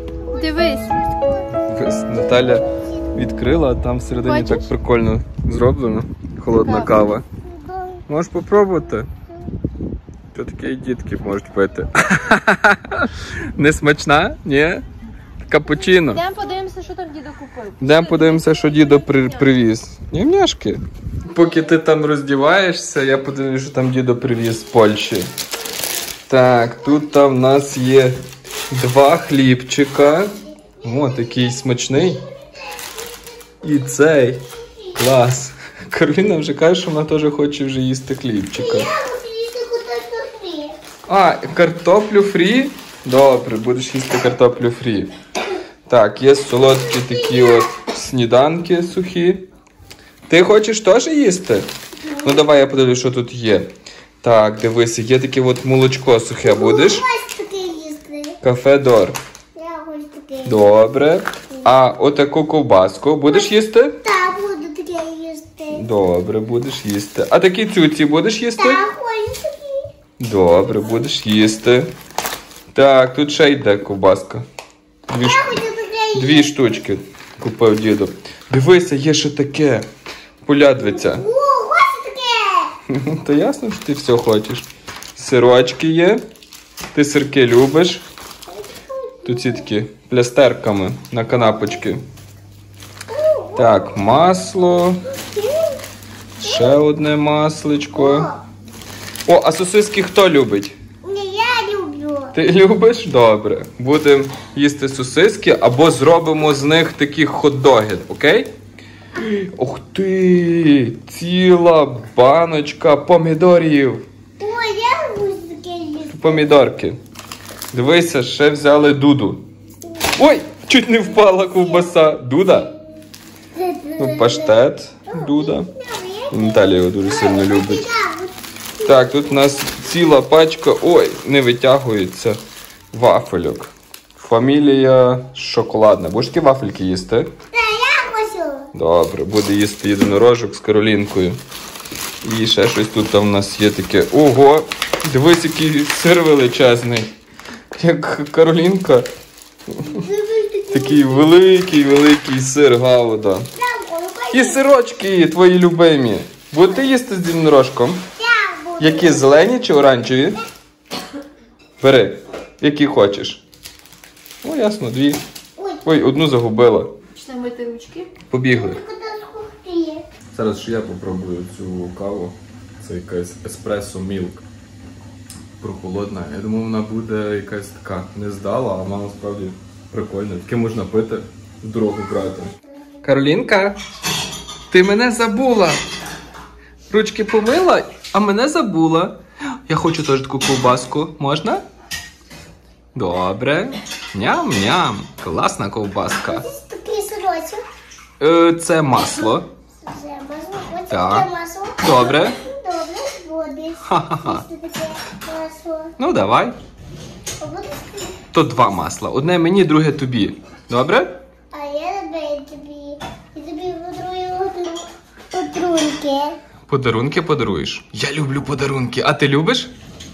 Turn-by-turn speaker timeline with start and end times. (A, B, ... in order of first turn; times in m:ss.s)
0:00.2-0:01.6 A
0:00.3-0:01.0 B
0:01.6-0:07.2 C
0:04.2-0:04.7 B
0:06.5-0:06.9 B
0:07.4-0:08.0 A
0:08.1-0:09.1 C
0:10.3-0:14.8 C
0:15.5-0:16.2 C
0:16.0-0:19.3 B
0:17.8-0:25.3 C
0:26.3-0:28.2 C
0:28.7-0:32.2 C
0:30.6-0:33.0 A
0:33.6-0:38.9 C
0:38.6-0:40.8 A
0:41.1-0:45.1 C
0:45.9-0:49.5 C
0:46.9-0:47.7 A
0:50.3-0:57.1 C
0:56.4-0:58.4 A
0:58.4-0:59.2 C
0:59.6-1:00.6 A
1:00.4-1:04.0 C
1:03.3-1:05.9 A
1:05.7-1:08.9 C
1:08.6-1:09.9 A
1:10.2-1:11.9 C
1:12.7-1:14.4 C
1:15.1-1:15.6 C
1:15.2-1:16.8 A
1:16.2-1:19.9 C
1:20.4-1:21.3 C
1:20.7-1:22.8 A
1:22.9-1:26.2 C
1:26.9-1:28.1 C
1:28.5-1:29.7 A
1:29.2-1:32.0 C
1:33.1-1:34.0 A
1:33.6-1:35.0 C
1:35.1-1:35.8 A
1:36.4-1:38.3 C
1:36.4-1:36.8 A
1:38.0-1:38.4 A
1:39.3-1:40.8 C
1:41.0-1:42.4 A
1:42.3-1:48.5 C
1:49.2-1:54.0 C
1:54.4-1:56.5 A
1:56.1-1:57.0 C
1:57.7-1:59.5 C
2:00.2-2:02.8 C
2:01.2-2:01.9 A
2:03.5-2:09.6 A
2:04.0-2:05.7 C
2:06.3-2:07.9 C
2:08.8-2:12.4 C
2:12.9-2:17.3 C
2:17.5-2:18.7 A
2:18.7-2:21.4 C
2:22.2-2:27.1 C
2:27.7-2:29.1 C
2:29.7-2:30.0 C
2:29.8-2:31.5 A
2:30.7-2:33.5 C
2:33.6-2:34.6 A
2:34.3-2:38.1 C
2:38.2-2:39.5 A
2:38.8-2:40.4 C
2:41.8-2:43.4 C
2:44.4-2:45.2 C
2:45.6-2:45.9 A
2:45.8-2:46.9 C
2:47.1-2:48.1 B
2:48.3-2:48.8 C
2:48.5-2:50.0 A
2:50.3-2:54.4 C
2:55.6-3:03.8 C
3:04.7-3:05.8 C
3:06.9-3:11.6 C
3:13.0-3:16.4 C
3:16.3-3:17.6 A
3:18.2-3:19.5 C
3:19.3-3:26.0 A
3:20.9-3:21.3 C
3:21.8-3:22.4 C
3:23.8-3:24.4 C
3:26.0-3:26.6 C
3:27.4-3:28.3 A
3:28.3-3:31.2 C
3:31.5-3:36.4 A
3:36.7-3:39.7 C